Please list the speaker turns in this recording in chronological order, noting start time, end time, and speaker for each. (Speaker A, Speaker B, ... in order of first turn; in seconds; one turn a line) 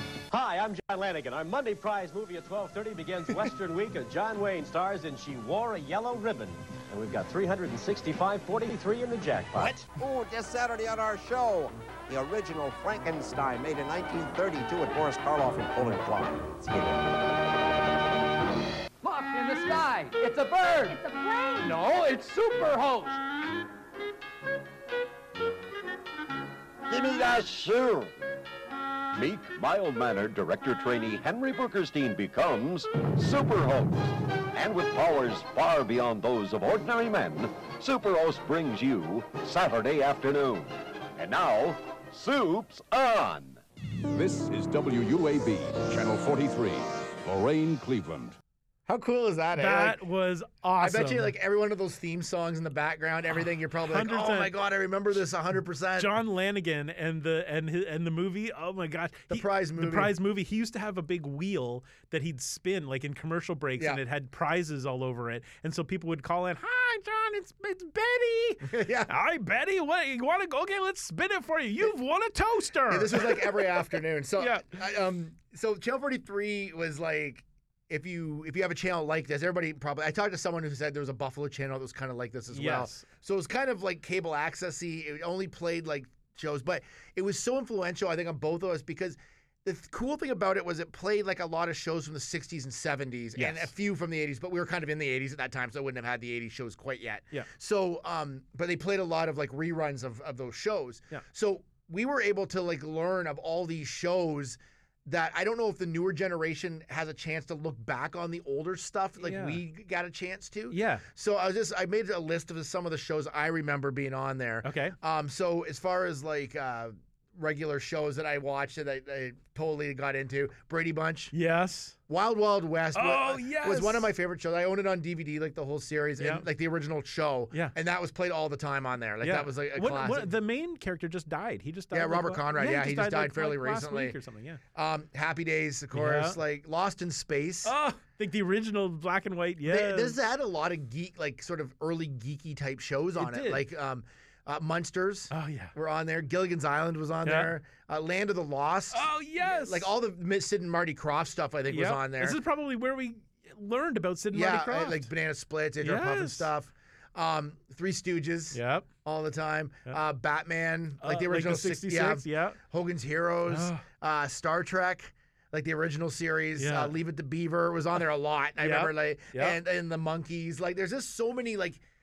Speaker A: 0.3-9.9
Speaker B: 9.6-17.3
Speaker C: 19.0-23.2
Speaker D: 26.9-28.1
Speaker D: 29.1-43.6
Speaker E: 44.1-48.4
Speaker F: 48.9-50.0
Speaker G: 49.5-51.3
Speaker F: 50.8-56.1
Speaker G: 53.8-54.5
Speaker G: 56.0-73.8
Speaker F: 59.3-60.1
Speaker F: 68.6-69.1
Speaker F: 72.9-121.3
Speaker G: 74.4-74.7
Speaker G: 82.5-83.0
Speaker G: 93.3-93.7
Speaker G: 109.2-109.6
Speaker G: 110.7-111.0
Speaker G: 114.6-115.0
Speaker G: 121.3-122.0
Speaker F: 122.1-130.3
Speaker G: 122.9-124.1
Speaker G: 126.2-126.5
Speaker G: 129.2-134.6
Speaker F: 131.9-134.2
Speaker F: 134.7-137.7
Speaker G: 135.9-136.4
Speaker G: 137.6-140.2
Speaker F: 139.6-152.4
Speaker G: 143.2-143.7
Speaker G: 145.3-145.7
Speaker G: 147.2-147.5
Speaker G: 148.9-149.9
Speaker G: 151.7-155.1
Speaker F: 154.3-171.8
Speaker G: 155.8-156.5
Speaker G: 158.5-158.9
Speaker G: 161.0-162.6
Speaker G: 163.5-163.8
Speaker G: 166.6-166.9
Speaker G: 168.6-169.6